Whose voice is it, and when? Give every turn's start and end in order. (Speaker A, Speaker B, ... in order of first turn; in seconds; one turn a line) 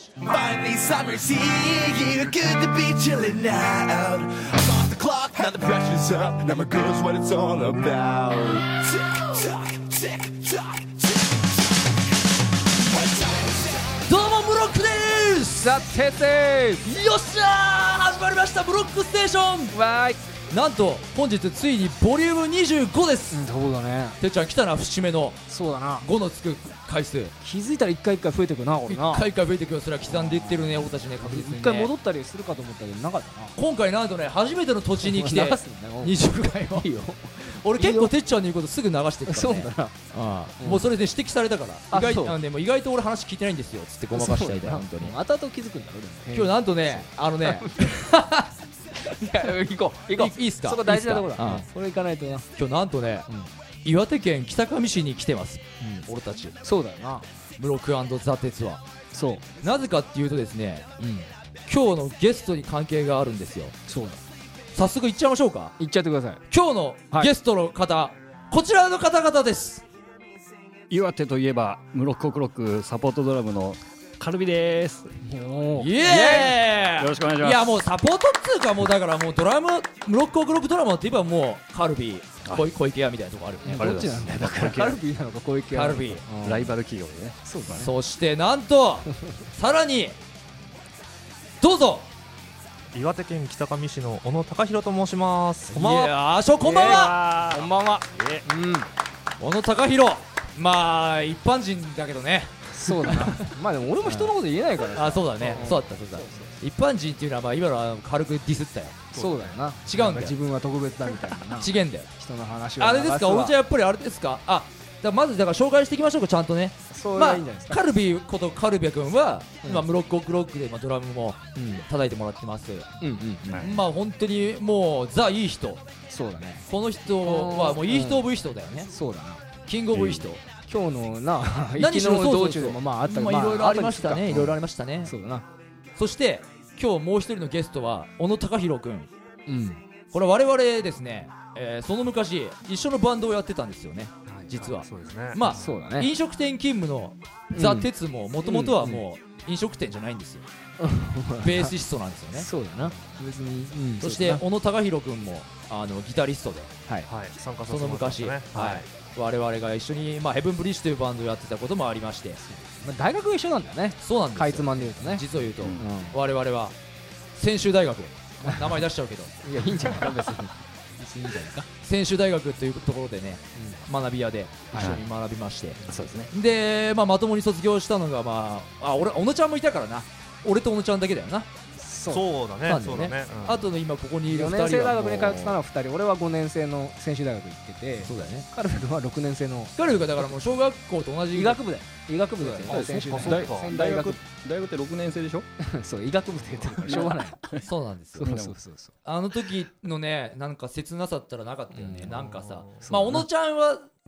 Speaker A: 0.2-11.2
Speaker A: 12.9-13.7
Speaker B: 14.0-15.8
Speaker C: 15.6-16.8
Speaker B: 16.8-19.8
Speaker C: 19.7-20.2
Speaker B: 20.5-23.5
Speaker C: 23.3-24.2
Speaker B: 24.2-25.5
Speaker C: 25.5-26.1
Speaker B: 26.0-27.3
Speaker C: 27.4-29.3
Speaker B: 28.9-31.9
Speaker C: 30.1-33.6
Speaker B: 33.5-45.1
Speaker C: 35.0-38.1
Speaker C: 39.3-39.9
Speaker C: 40.6-40.9
Speaker C: 41.9-42.4
Speaker C: 44.1-48.1
Speaker B: 46.3-48.5
Speaker C: 49.0-52.5
Speaker B: 50.1-51.7
Speaker B: 52.5-53.3
Speaker B: 53.8-56.5
Speaker C: 55.8-56.1
Speaker C: 56.6-57.3
Speaker B: 57.6-58.8
Speaker C: 59.1-59.5
Speaker B: 59.6-60.9
Speaker C: 61.0-61.3
Speaker B: 61.6-63.8
Speaker C: 63.9-64.2
Speaker B: 64.7-65.8
Speaker C: 65.8-66.4
Speaker B: 66.5-69.8
Speaker D: 70.9-75.2
Speaker C: 75.2-76.6
Speaker B: 75.8-84.0
Speaker D: 77.0-77.8
Speaker D: 83.6-85.0
Speaker C: 83.6-86.7
Speaker B: 85.7-86.2
Speaker D: 86.4-87.4
Speaker C: 87.4-87.9
Speaker B: 87.7-90.2
Speaker B: 91.6-92.1
Speaker E: 92.9-96.2
Speaker B: 95.7-97.2
Speaker C: 96.6-98.9
Speaker D: 96.7-98.5
Speaker B: 99.4-103.5
Speaker C: 102.7-106.6
Speaker B: 104.0-104.3
Speaker B: 104.9-109.1
Speaker E: 109.1-109.6
Speaker C: 109.2-113.5
Speaker B: 109.9-110.4
Speaker B: 111.5-112.1
Speaker B: 112.8-122.9
Speaker C: 116.9-117.8
Speaker C: 121.5-121.8
Speaker C: 123.0-123.6
Speaker D: 123.5-123.8
Speaker B: 123.6-125.8
Speaker C: 126.1-126.6
Speaker B: 126.7-128.9
Speaker C: 127.2-128.3
Speaker C: 128.9-129.4
Speaker B: 129.7-130.4
Speaker D: 129.9-130.2
Speaker C: 130.7-135.4
Speaker B: 131.8-135.1
Speaker B: 135.9-139.1
Speaker C: 139.5-139.8
Speaker B: 140.1-150.4
Speaker E: 144.2-145.6
Speaker C: 145.4-146.1
Speaker C: 147.5-147.9
Speaker C: 148.4-149.0
Speaker C: 150.8-151.7
Speaker B: 151.4-152.5
Speaker C: 152.3-154.4
Speaker B: 154.0-156.7
Speaker E: 157.1-158.8
Speaker B: 157.7-162.4
Speaker C: 162.5-165.2
Speaker B: 164.0-166.8
Speaker D: 165.6-165.9
Speaker C: 165.8-166.2
Speaker B: 167.3-170.1
Speaker C: 169.4-171.7
Speaker B: 171.8-175.8
Speaker C: 173.5-173.8
Speaker D: 174.7-175.0
Speaker C: 175.8-176.0
Speaker D: 175.8-176.3
Speaker B: 176.3-181.5
Speaker C: 181.8-182.3
Speaker E: 182.1-183.7
Speaker B: 182.6-185.6
Speaker C: 184.3-189.8
Speaker B: 188.0-188.5
Speaker B: 189.7-191.6
Speaker C: 191.3-194.2
Speaker B: 192.4-193.1
Speaker D: 192.7-195.5
Speaker E: 192.9-193.5
Speaker C: 195.6-197.4
Speaker D: 196.8-197.7
Speaker B: 197.6-198.3
Speaker C: 198.2-198.9
Speaker D: 198.2-198.6
Speaker B: 199.0-203.9
Speaker C: 201.7-202.2
Speaker E: 202.0-202.9
Speaker C: 202.8-203.3